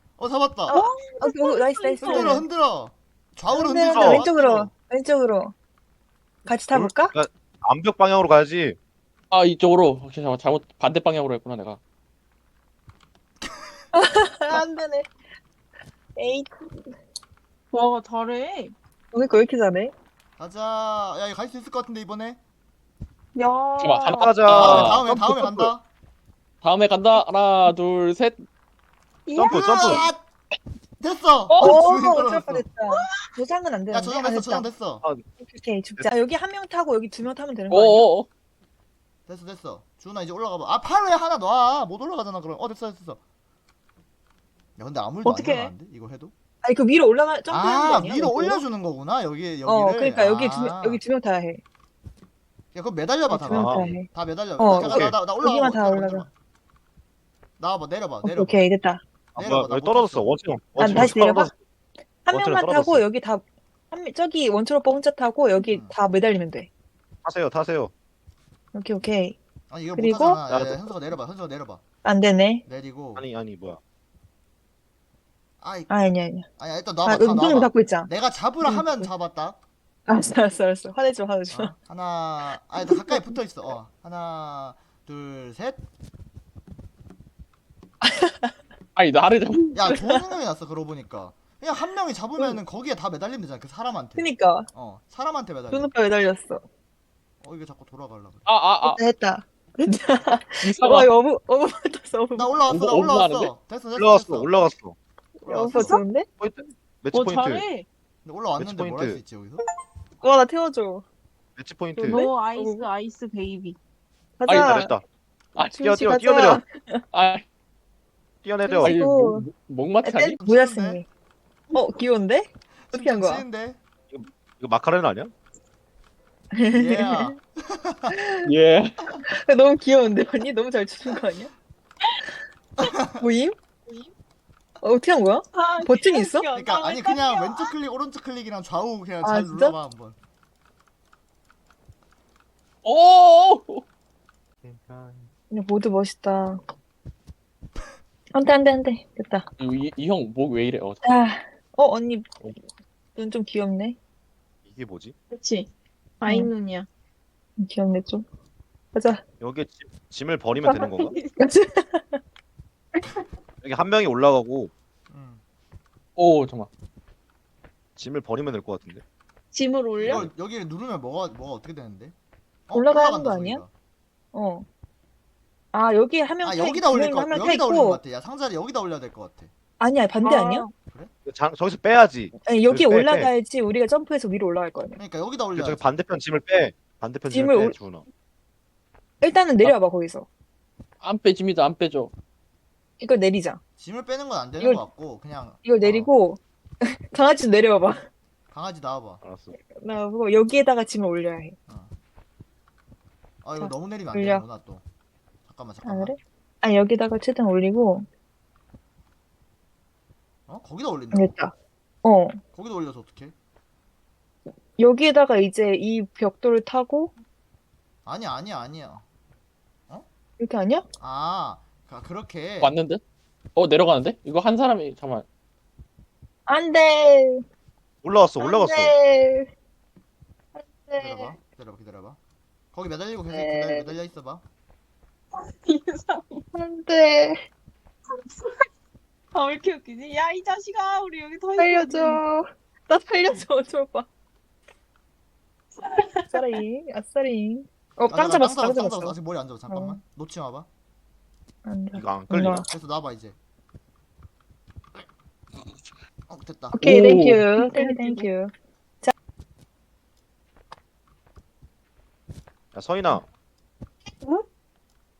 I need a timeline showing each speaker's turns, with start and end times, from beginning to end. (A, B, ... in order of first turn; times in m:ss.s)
0:00.2-0:00.8 A
0:00.7-0:02.4 B
0:00.7-0:02.3 C
0:02.0-0:04.7 A
0:03.5-0:05.5 B
0:03.9-0:04.3 D
0:06.5-0:07.2 B
0:06.7-0:08.8 D
0:09.3-0:11.8 E
0:13.9-0:15.1 B
0:16.2-0:16.5 B
0:17.7-0:18.7 C
0:19.1-0:19.9 B
0:20.4-0:22.4 A
0:23.4-0:24.4 C
0:23.8-0:25.0 E
0:24.0-0:25.7 D
0:24.5-0:25.9 A
0:26.6-0:28.4 E
0:29.3-0:30.1 C
0:29.4-0:30.1 D
0:29.5-0:30.2 A
0:31.0-0:32.7 A
0:31.5-0:31.9 C
0:31.6-0:34.7 B
0:32.9-0:33.4 C
0:33.9-0:35.0 A
0:35.4-0:38.1 B
0:37.7-0:38.3 E
0:39.3-0:43.2 A
0:44.8-0:46.3 A
0:45.2-0:45.7 C
0:46.6-0:48.6 B
0:47.5-0:51.0 A
0:49.7-0:51.6 B
0:52.7-0:56.3 A
0:53.3-0:54.1 B
0:53.5-0:54.0 D
0:54.6-0:56.3 B
0:54.7-0:55.1 D
0:57.6-0:58.6 A
0:58.2-0:59.0 B
0:59.4-1:01.5 D
0:59.4-1:01.2 A
1:00.8-1:01.5 B
1:02.3-1:06.7 B
1:02.3-1:03.0 D
1:05.7-1:06.0 A
1:07.2-1:07.9 D
1:08.7-1:09.4 B
1:09.7-1:11.8 A
1:10.0-1:10.4 B
1:10.5-1:10.8 D
1:12.0-1:12.6 B
1:12.7-1:13.2 A
1:13.2-1:13.8 D
1:15.6-1:15.9 A
1:15.9-1:16.5 B
1:16.6-1:19.6 A
1:17.0-1:18.1 B
1:18.6-1:19.1 B
1:20.1-1:21.7 B
1:21.5-1:25.8 A
1:22.9-1:23.4 B
1:28.0-1:28.5 B
1:29.0-1:30.0 E
1:29.7-1:35.9 A
1:34.2-1:34.7 B
1:35.7-1:36.6 B
1:37.4-1:38.5 A
1:38.5-1:39.0 E
1:38.8-1:42.5 B
1:40.6-1:41.1 E
1:42.4-1:44.7 A
1:42.7-1:43.5 E
1:44.0-1:45.0 D
1:45.4-1:46.0 A
1:45.5-1:46.3 B
1:45.8-1:46.0 C
1:46.4-1:47.6 D
1:47.1-1:47.9 C
1:48.2-1:49.6 A
1:48.6-1:49.2 D
1:50.2-1:51.0 B
1:51.6-1:52.2 D
1:52.0-1:52.9 B
1:52.0-1:53.8 C
1:54.4-1:54.9 B
1:54.5-1:54.9 E
1:54.5-1:55.0 D
1:55.6-1:57.0 B
1:55.8-1:56.6 D
1:57.1-1:57.4 E
1:58.4-1:59.0 D
1:58.7-1:59.4 B
1:58.8-2:00.4 E
2:00.0-2:01.1 B
2:00.4-2:01.0 A
2:01.7-2:03.4 B
2:02.9-2:03.8 A
2:04.1-2:05.3 D
2:06.5-2:07.4 B
2:06.7-2:08.2 A
2:08.1-2:08.5 B
2:08.4-2:09.0 E
2:09.3-2:11.5 B
2:12.8-2:13.2 A
2:13.2-2:13.6 B
2:13.9-2:14.1 C
2:14.8-2:16.5 B
2:15.5-2:17.7 C
2:16.5-2:20.2 A
2:19.2-2:19.8 B
2:22.8-2:23.8 E
2:24.6-2:25.3 D
2:25.5-2:26.6 B
2:28.3-2:29.5 B
2:29.6-2:31.0 E
2:31.0-2:32.3 B
2:33.2-2:34.0 B
2:34.7-2:35.2 D
2:35.3-2:36.9 C
2:36.2-2:36.5 B
2:37.6-2:38.2 B
2:38.9-2:39.2 B
2:39.4-2:41.2 D
2:40.6-2:41.4 C
2:41.4-2:42.2 B
2:43.6-2:44.7 D
2:45.1-2:45.4 A
2:46.2-2:46.7 E
2:48.0-2:49.0 D
2:49.5-2:50.3 C
2:50.0-2:52.1 A
2:52.7-2:53.7 A
2:52.7-2:53.6 B
2:54.3-2:54.7 B
2:55.7-2:58.0 B
2:56.4-2:59.5 A
2:59.8-3:00.6 B
3:00.2-3:00.7 C
3:01.2-3:03.3 D
3:02.5-3:05.0 B
3:05.0-3:05.9 A
3:05.6-3:08.0 D
3:07.3-3:07.8 B
3:09.2-3:10.3 B
3:11.0-3:12.1 E
3:13.0-3:13.6 B
3:13.8-3:16.1 A
3:14.6-3:14.8 B
3:15.6-3:18.0 B
3:18.5-3:19.2 A
3:19.2-3:19.6 D
3:19.8-3:21.6 B
3:23.4-3:24.8 A
3:23.6-3:24.4 B
3:25.5-3:26.1 A
3:25.8-3:28.1 B
3:30.5-3:31.3 A
3:31.1-3:31.5 B
3:32.0-3:32.4 B
3:32.5-3:33.3 A
3:34.8-3:37.1 B
3:38.1-3:39.0 A
3:40.4-3:40.8 B
3:41.0-3:42.8 A
3:42.6-3:43.0 E
3:43.6-3:45.2 E
3:46.5-3:47.4 B
3:48.0-3:48.9 D
3:48.4-3:49.5 B
3:50.6-3:51.3 B
3:51.0-3:52.2 A
3:52.7-3:54.4 A
3:53.3-3:53.9 B
3:55.3-3:56.5 C
3:56.5-3:57.4 B
3:58.1-3:58.7 C
3:59.3-4:02.2 C
4:01.6-4:04.1 B
4:05.8-4:06.6 C
4:06.3-4:09.2 B
4:08.1-4:10.7 A
4:09.7-4:10.0 B
4:11.6-4:12.7 B
4:11.9-4:12.7 D
4:12.7-4:13.4 A
4:16.3-4:16.8 A
4:16.7-4:19.1 B
4:16.8-4:17.5 E
4:17.5-4:18.3 C
4:22.7-4:23.2 D
4:24.2-4:24.4 C